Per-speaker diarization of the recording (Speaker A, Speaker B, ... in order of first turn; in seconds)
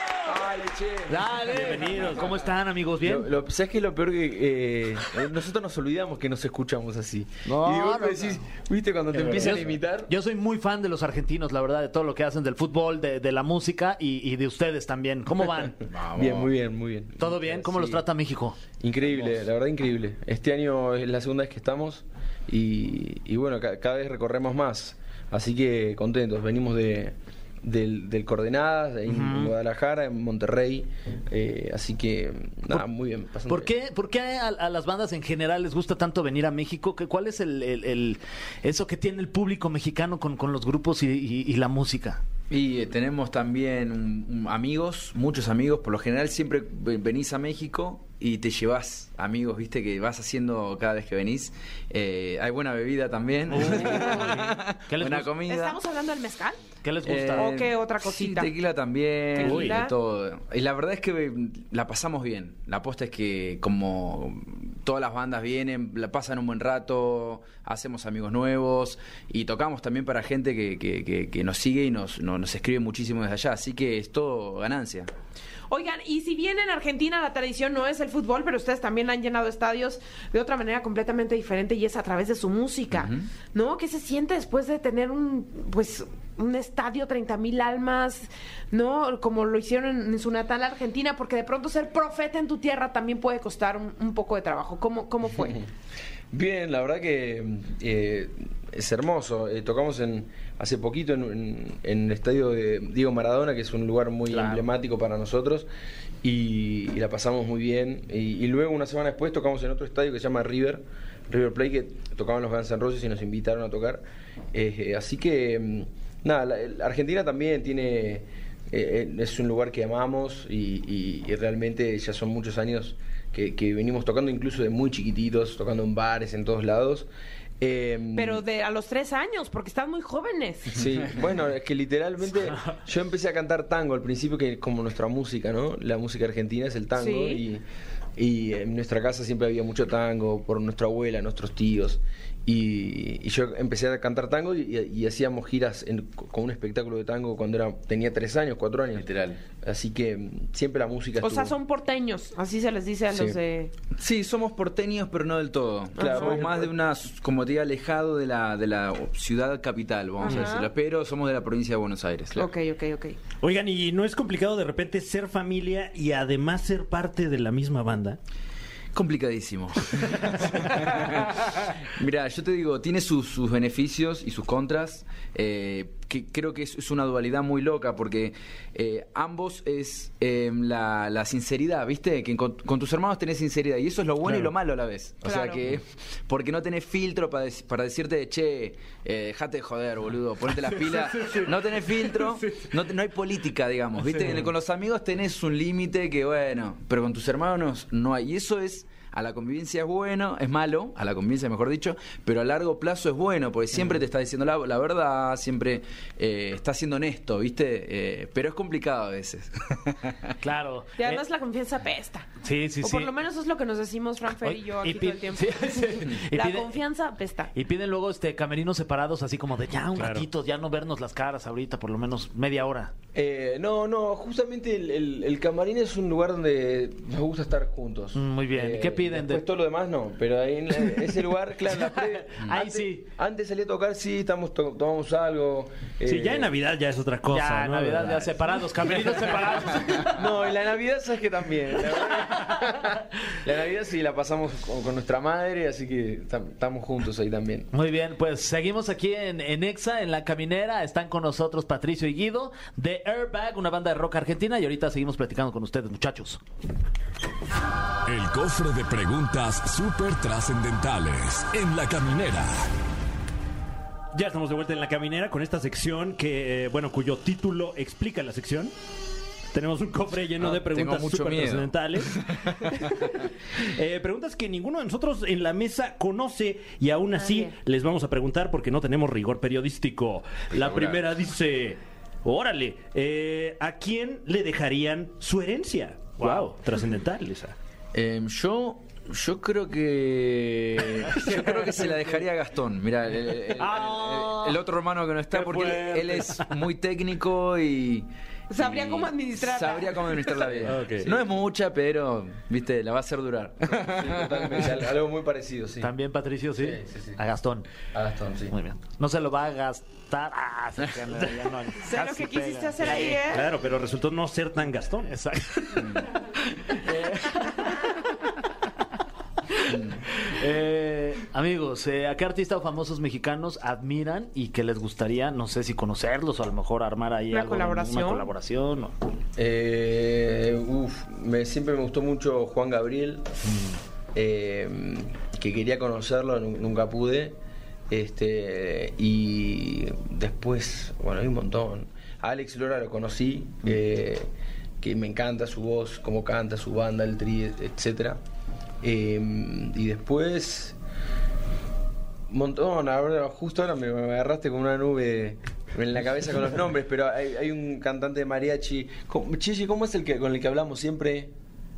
Speaker A: 0.2-1.2, 3.0-10.1, 16.1-18.1, 18.8-33.7, 95.3-95.7, 96.3-105.7, 106.2-114.0, 114.5-127.1, 127.6-128.4, 130.7-137.7, 138.2-151.6, 153.1-153.4, 156.0-156.7, 223.1-236.5, 240.0-247.7, 303.7-305.9, 306.6-307.2, 307.9-308.5, 316.8-317.4, 329.4-333.4, 334.1-337.4, 337.9-344.3, 344.8-348.2, 348.8-350.8, 352.3-361.3
Speaker B: 1.1-3.3, 7.5-8.4, 9.1-15.8, 17.2-18.6, 29.1-29.5, 33.5-42.2, 53.5-55.3, 56.8-57.5, 104.3-104.7, 210.4-211.2, 212.4-213.1, 214.3-216.7, 217.5-222.9, 228.2-229.4, 231.6-233.1, 237.3-240.2, 247.7-256.4, 286.2-286.4, 293.6-294.6, 305.8-307.7, 308.5-313.2, 315.1-316.9, 320.1-328.9
Speaker C: 1.4-2.4, 53.6-54.3, 59.4-59.8, 163.4-168.2, 170.1-170.9, 190.8-192.7, 220.0-220.3, 236.1-238.7, 264.1-268.7, 269.5-287.5, 291.1-291.7, 293.8-294.2, 295.3-296.5, 300.6-301.1, 313.2-315.1
Speaker D: 15.8-16.5, 42.5-55.8, 57.0-75.1, 82.9-83.3, 148.9-149.4, 154.0-162.5, 168.9-210.3, 270.4-272.9, 280.5-281.0, 287.9-304.8, 315.8-316.1, 319.7-320.0
Speaker E: 55.5-56.6, 57.3-58.5, 59.3-59.9, 75.7-95.6, 128.2-130.8, 137.0-137.4, 151.2-153.7, 156.0-156.4, 160.2-160.7, 162.3-163.2, 185.2-185.6, 211.0-212.3, 212.8-217.5, 277.2-277.5, 298.5-300.7, 311.8-313.5, 327.3-328.3
Speaker F: 258.1-262.7